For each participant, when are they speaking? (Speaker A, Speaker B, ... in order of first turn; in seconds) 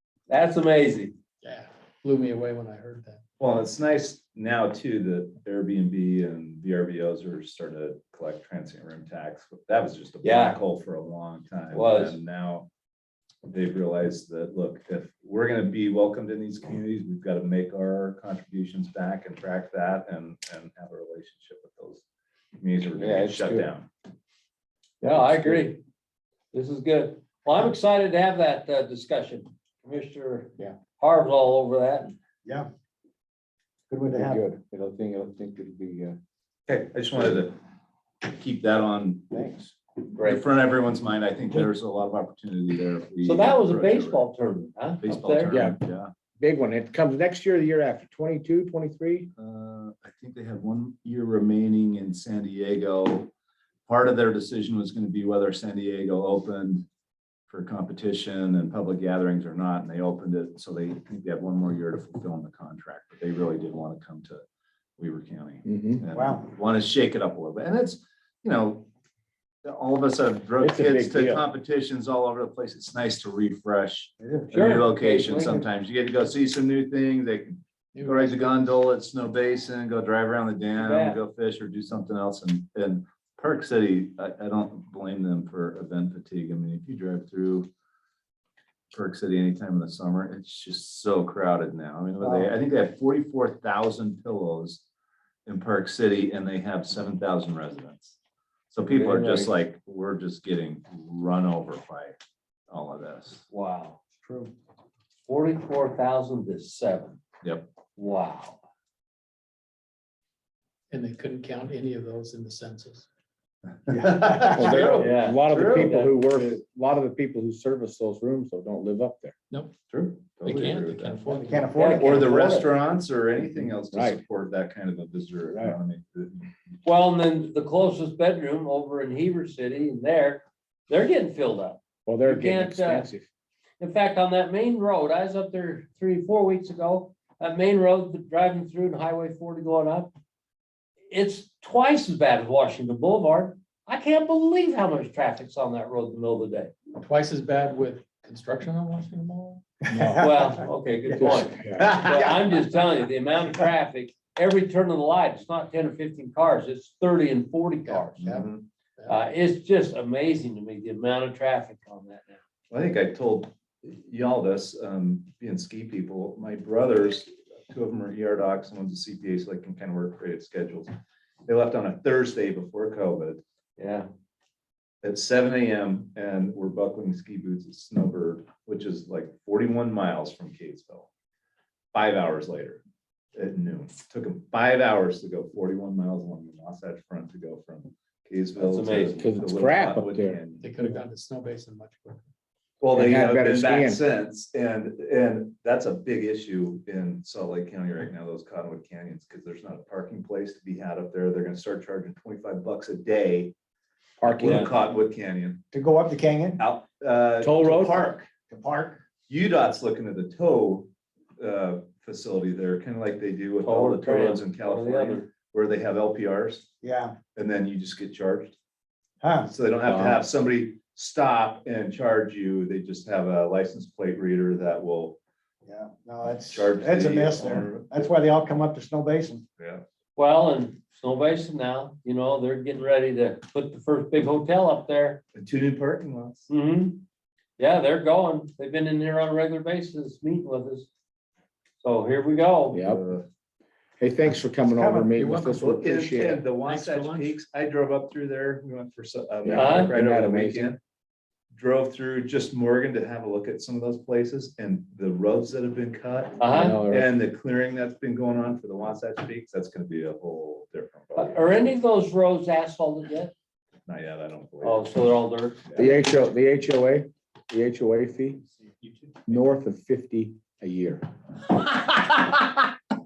Speaker A: 0.3-1.1, 10.2-10.6, 11.7-12.2, 25.0-25.8, 26.5-32.1, 40.1-40.4, 43.2-45.5, 74.5-75.6, 80.8-81.2, 103.5-104.0, 105.3-107.2, 107.9-108.6, 115.0-116.4, 121.8-122.7, 126.8-133.1, 133.8-140.1, 141.1-146.7, 150.2-158.2, 159.1-162.4, 173.8-174.1, 188.6-189.2, 204.4-204.7, 213.6-215.3, 230.2-235.2, 236.5-237.0, 237.6-240.9, 241.8-242.8, 249.5-249.9, 256.4-256.8, 261.1-263.3, 264.6-265.6
Speaker B: 1.4-3.2, 77.9-78.7, 110.9-113.1, 120.4-122.3, 146.9-150.3, 157.9-158.4, 190.6-192.2, 245.2-246.1, 246.6-247.3
Speaker C: 3.4-12.7, 13.4-22.0, 22.6-23.9, 36.7-37.6, 38.2-44.3, 45.0-46.1, 49.4-53.3, 53.9-56.9, 57.5-64.4, 65.0-68.9, 69.6-87.7, 88.9-94.8, 95.4-98.2, 98.7-102.2, 102.7-103.4, 107.4-107.7, 113.9-116.0, 119.9-121.2, 122.0-126.5, 158.2-158.7, 162.7-170.9, 171.4-173.4, 175.0-181.1, 181.9-182.8, 183.3-191.0, 192.8-203.5, 204.2-205.6, 206.6-208.3, 209.2-216.7, 217.2-218.6, 219.5-225.2, 226.5-227.9, 229.6-229.8, 235.3-236.5, 242.8-243.2, 245.6-250.8, 251.5-261.7, 263.9-264.9, 265.7-265.9, 271.6-272.7
Speaker D: 22.9-23.7, 25.1-25.7, 34.0-36.2, 45.5-45.8, 46.4-49.3, 65.6-66.0, 70.6-71.4, 98.8-99.4, 114.4-119.3, 123.9-124.2, 132.1-133.2, 151.2-152.0, 189.2-190.4, 192.9-194.0, 204.2-204.7, 207.4-208.1, 219.8-220.2, 242.7-243.1, 244.0-246.4, 249.4-250.7, 256.5-257.1, 265.8-268.4, 269.3-271.1
Speaker E: 33.9-34.4, 66.1-66.5, 74.2-74.6, 92.2-92.6, 104.2-104.5, 113.9-115.0, 121.2-122.6, 149.9-150.6, 151.9-152.4, 205.7-206.6, 208.5-209.0, 216.8-217.2, 219.2-219.5, 225.7-229.4, 244.6-245.1